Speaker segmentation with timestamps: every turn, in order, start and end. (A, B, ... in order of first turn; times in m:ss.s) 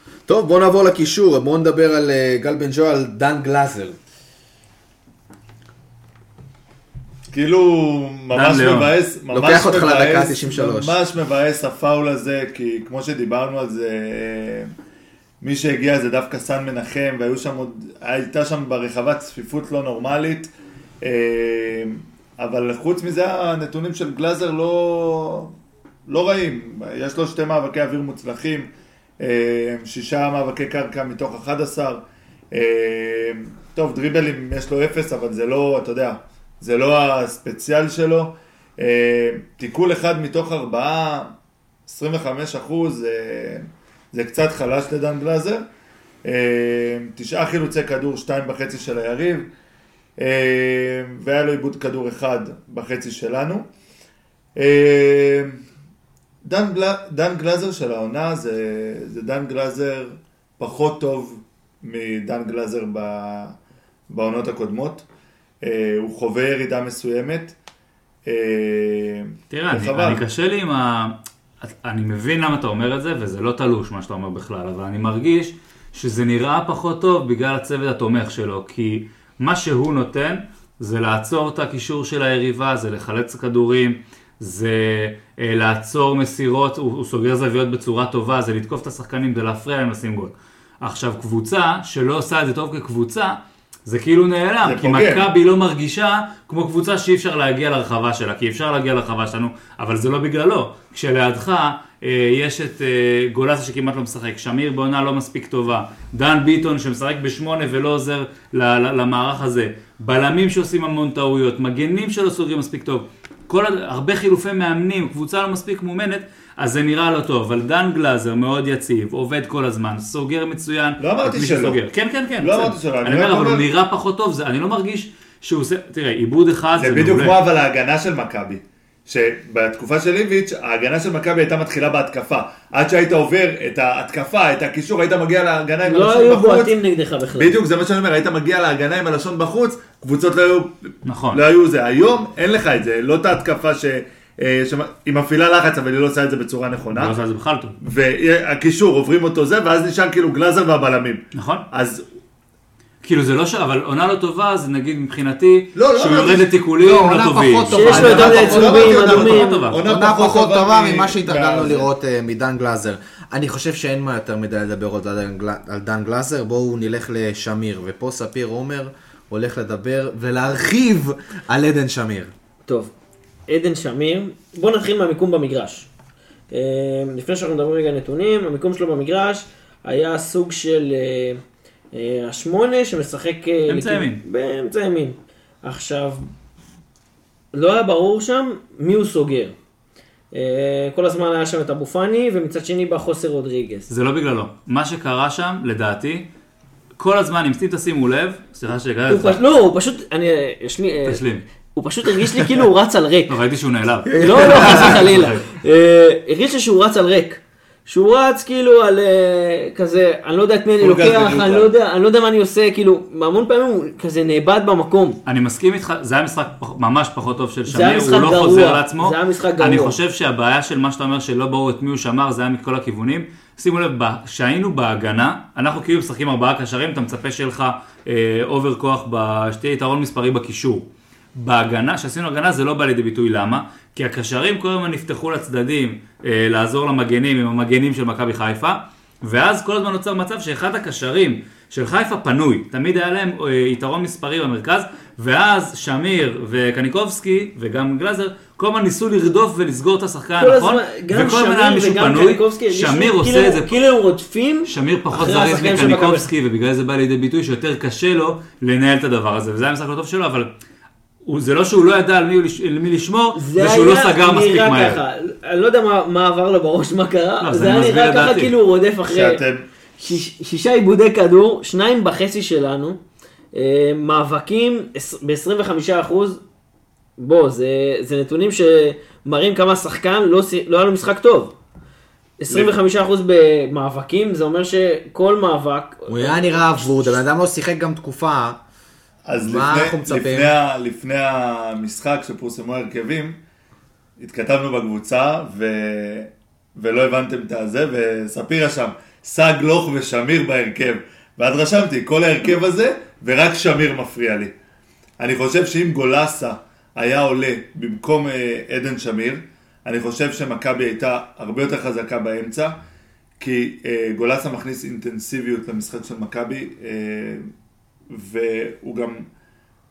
0:00.3-0:04.0 A
0:07.3-0:14.7 B
0:08.3-0:08.9 C
0:09.3-0:11.0 A
0:15.4-0:20.5 B
0:21.0-0:25.5 B
0:26.1-0:41.3 B
0:41.9-0:45.6 B
0:46.2-0:49.5 B
0:50.2-0:53.6 B
0:54.6-0:55.6 B
0:56.4-1:03.6 B
1:04.1-1:05.0 B
1:05.6-1:07.5 B
1:08.3-1:10.2 B
1:09.5-2:07.4 C
1:34.6-1:35.3 B
2:01.0-2:01.8 B
2:02.4-2:03.6 B
2:06.8-2:16.7 B
2:15.9-2:17.6 D
2:17.4-2:27.2 B
2:21.0-2:21.4 C
2:26.9-2:27.8 C
2:27.8-2:32.0 B
2:31.3-2:31.7 C
2:33.0-2:39.9 C
2:35.8-2:36.5 B
2:36.8-2:39.0 A
2:37.7-2:39.6 D
2:37.9-2:41.9 B
2:39.8-2:52.3 A
2:52.7-2:52.9 D
2:53.5-2:55.9 D
2:56.5-3:01.4 D
3:01.9-3:06.3 D
3:03.7-3:04.2 C
3:07.5-3:09.6 D
3:10.3-3:13.9 D
3:13.9-3:16.2 C
3:17.0-3:19.4 C
3:19.1-3:21.2 D
3:21.1-3:21.4 C
3:21.8-3:23.3 D
3:23.3-3:25.5 C
3:24.1-3:25.0 A
3:24.2-3:35.2 D
3:30.8-3:31.7 B
3:35.3-4:13.7 C
3:37.7-3:40.0 D
4:10.4-4:16.3 D
4:14.7-4:20.5 C
4:21.3-4:25.0 C
4:23.4-4:29.4 D
4:27.4-4:28.5 C
4:29.1-4:29.6 B
4:30.0-4:33.0 D
4:33.5-4:36.4 D
4:37.2-4:41.5 D
4:42.4-4:47.2 D
4:46.1-4:48.6 A
4:49.2-4:53.4 B
4:49.4-4:50.6 A
4:54.2-5:04.5 B
5:05.2-5:12.8 B
5:13.4-5:17.4 B
5:18.1-5:19.3 B